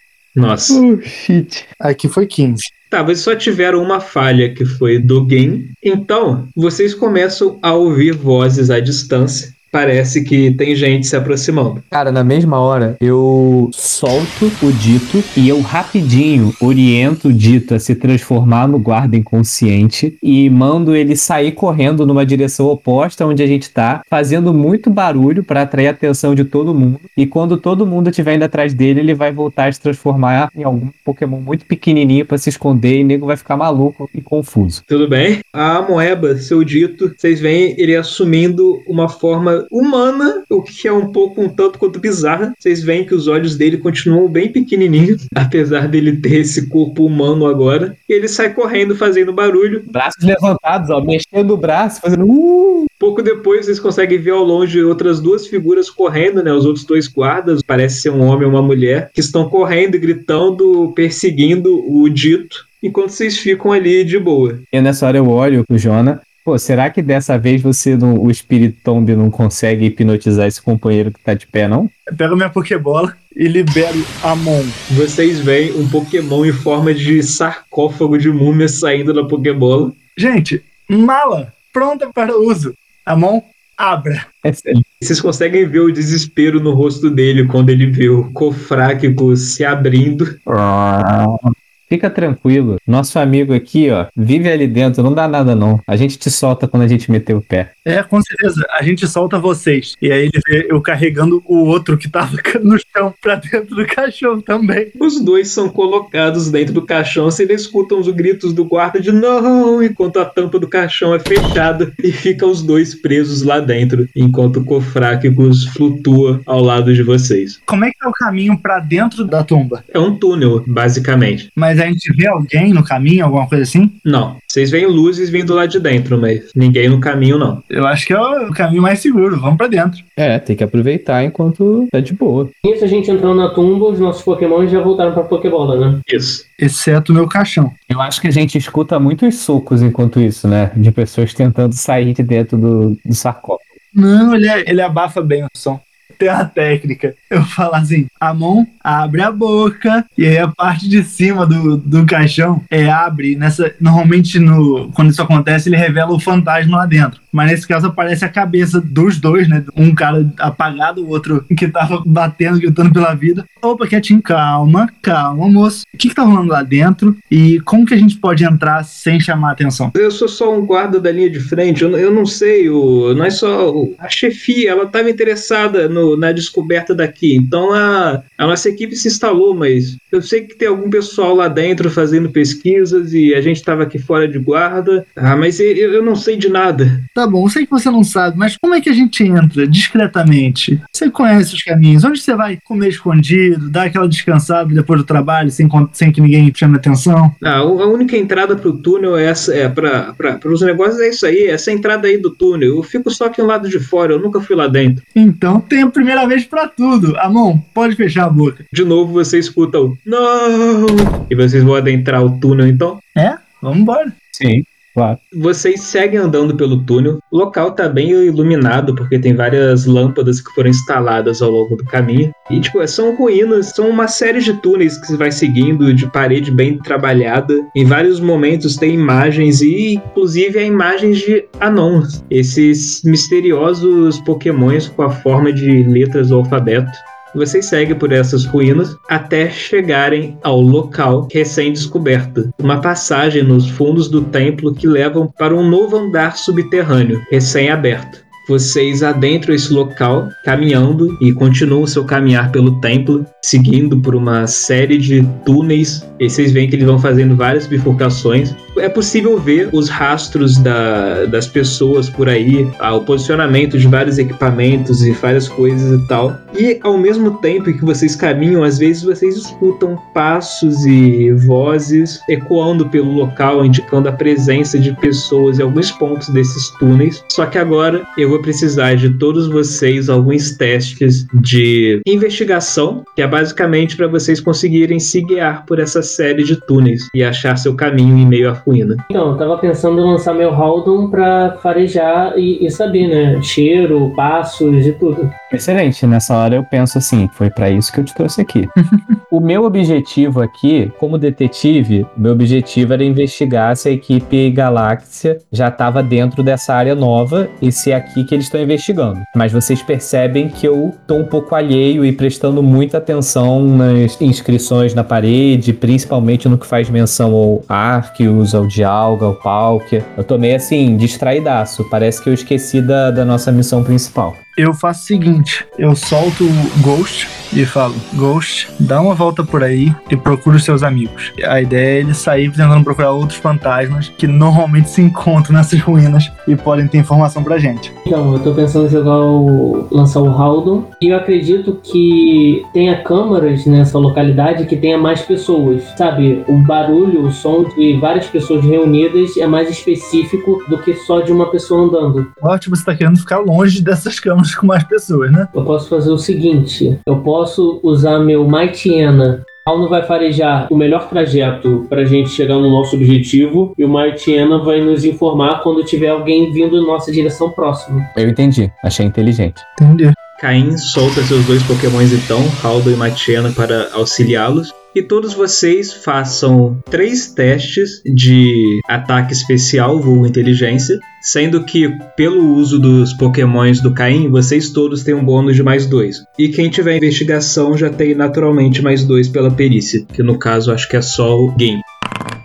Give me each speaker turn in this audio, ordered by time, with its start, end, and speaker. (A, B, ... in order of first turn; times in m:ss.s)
0:00.3-0:00.8 A
0:00.7-0:01.7 B
0:01.8-0:02.6 C
0:02.9-0:11.8 A
0:11.9-0:34.8 B
0:34.9-0:49.9 A
0:49.9-0:52.9 B
0:53.0-1:04.6 A
1:04.7-1:11.9 B
1:12.1-1:14.8 C
1:14.9-1:19.9 A
1:20.2-1:24.2 C
1:24.4-1:24.8 B
1:25.0-1:30.4 A
1:30.5-1:37.7 B
1:37.8-1:44.9 C
1:45.0-1:57.6 A
1:57.7-1:59.8 C
1:59.9-2:01.5 A
2:01.6-2:04.0 C
2:04.0-2:07.6 A
2:07.7-2:10.0 C
2:10.2-2:12.5 B
2:12.6-2:16.0 D
2:16.1-2:16.4 A
2:16.6-2:17.7 C
2:17.9-2:23.8 B
2:23.9-2:49.9 C
2:49.9-3:07.0 A
3:07.2-3:17.3 C
3:17.4-3:25.0 A
3:25.1-3:28.6 C
3:28.7-3:33.0 A
3:33.2-3:34.1 C
3:34.3-3:35.2 B
3:35.3-4:49.0 A
4:49.1-4:55.3 D
4:55.5-4:58.7 B
4:59.3-5:24.4 B
5:24.6-5:37.9 C
5:38.0-5:52.3 D
5:52.4-5:55.5 C
5:55.5-6:08.1 D
6:08.2-6:09.6 B
6:09.8-6:10.2 C
6:10.4-6:31.8 A